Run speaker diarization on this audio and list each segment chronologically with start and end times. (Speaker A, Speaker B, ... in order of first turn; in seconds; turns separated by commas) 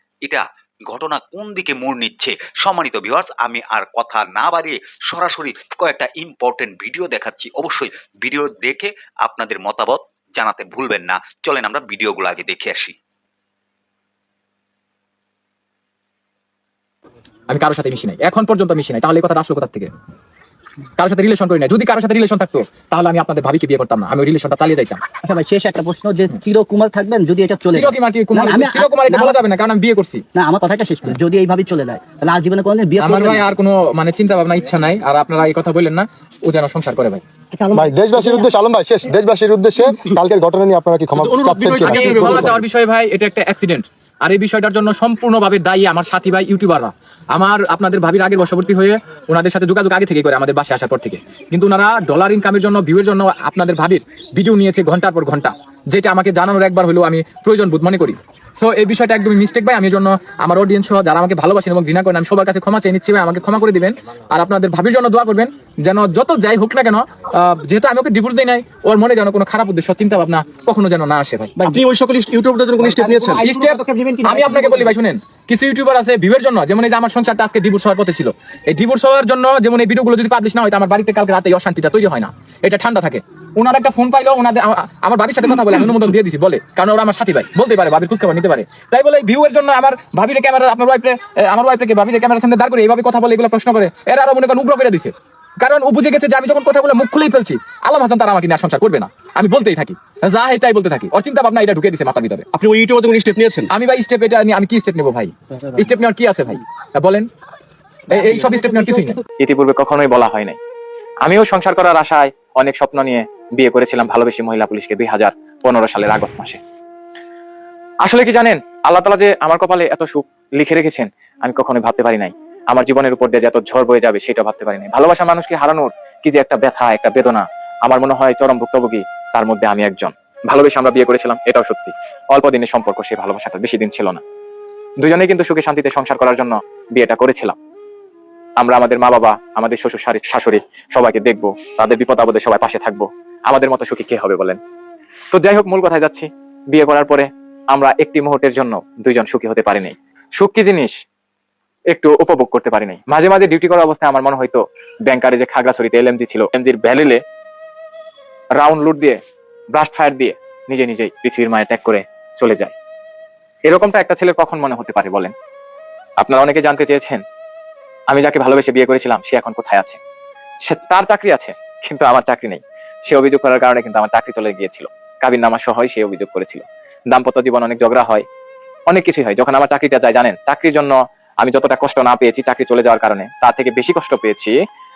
Speaker A: 0.3-12.9, Speaker B: 17.5-19.9, Speaker B: 21.0-25.0, Speaker C: 25.2-29.4, Speaker B: 27.7-30.2, Speaker C: 30.4-33.5, Speaker B: 33.0-37.2, Speaker C: 37.6-38.5, Speaker D: 37.8-42.6, Speaker E: 41.2-42.6, Speaker B: 41.2-71.5, Speaker E: 71.6-73.5, Speaker C: 72.8-74.9, Speaker B: 73.4-102.5, Speaker E: 102.5-103.7, Speaker B: 103.7-107.3, Speaker B: 108.1-109.2, Speaker F: 109.4-110.6, Speaker F: 111.3-116.6, Speaker F: 118.0-134.2, Speaker F: 135.0-137.6, Speaker F: 138.6-144.6, Speaker F: 145.3-150.9, Speaker F: 151.9-157.2, Speaker F: 158.6-159.2, Speaker F: 159.8-162.7, Speaker F: 163.7-165.3, Speaker F: 166.2-167.2, Speaker F: 168.1-170.0, Speaker F: 170.7-178.2, Speaker F: 178.9-184.5